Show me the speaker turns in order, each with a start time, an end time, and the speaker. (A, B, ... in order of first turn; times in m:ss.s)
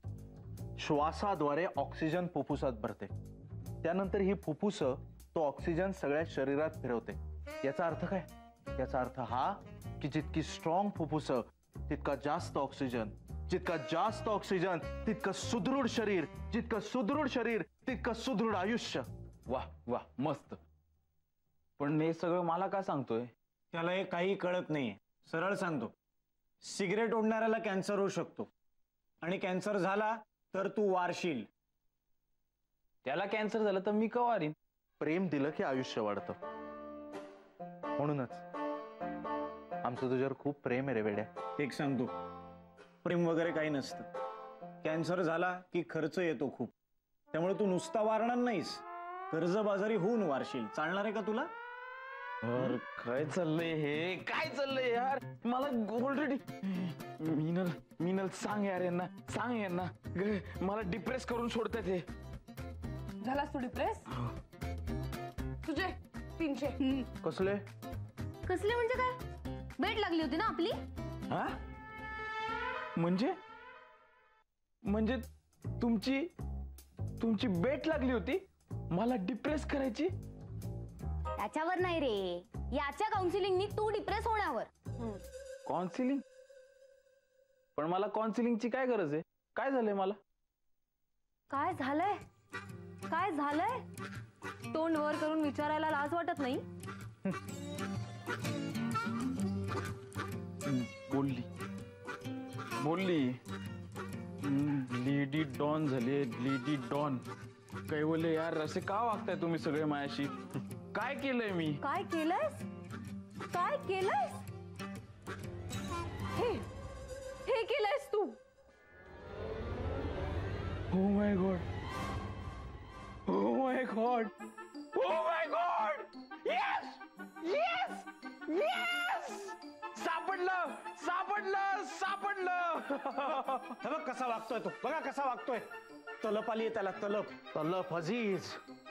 0:00.8-0:03.1 A
0:03.8-0:19.1 A
0:19.5-0:20.6 B
0:21.8-0:23.3 B
0:23.7-0:25.9 C
0:26.6-0:28.5 C
0:29.2-0:31.5 C
0:33.0-0:34.5 B
0:35.0-0:36.4 A
0:38.0-0:38.4 A
0:39.8-0:41.3 A
0:41.6-0:42.1 C
0:43.0-0:44.0 C
0:44.8-0:46.7 C
0:47.3-0:51.5 C
0:52.4-1:02.0 B
1:03.2-1:04.0 D
1:05.6-1:06.8 D
1:07.2-1:07.6 A
1:13.0-1:13.4 B
1:14.8-1:15.2 B
1:15.8-1:16.3 B
1:17.2-1:20.1 B
1:21.4-1:24.5 E
1:25.6-1:26.2 B
1:27.7-1:30.2 B
1:31.5-1:32.2 F
1:33.1-1:33.8 F
1:34.7-1:36.6 F
1:40.6-1:41.5 B
1:42.8-1:43.4 B
1:44.4-1:47.2 B
1:47.9-1:50.3 B
1:50.9-1:51.8 B
1:51.8-1:52.6 F
1:53.5-1:54.4 F
1:56.4-1:56.6 F
1:57.4-1:58.4 F
2:00.9-2:01.6 B
2:03.2-2:04.3 B
2:04.9-2:13.8 B
2:13.8-2:15.6 C
2:16.2-2:17.3 C
2:17.5-2:18.6 A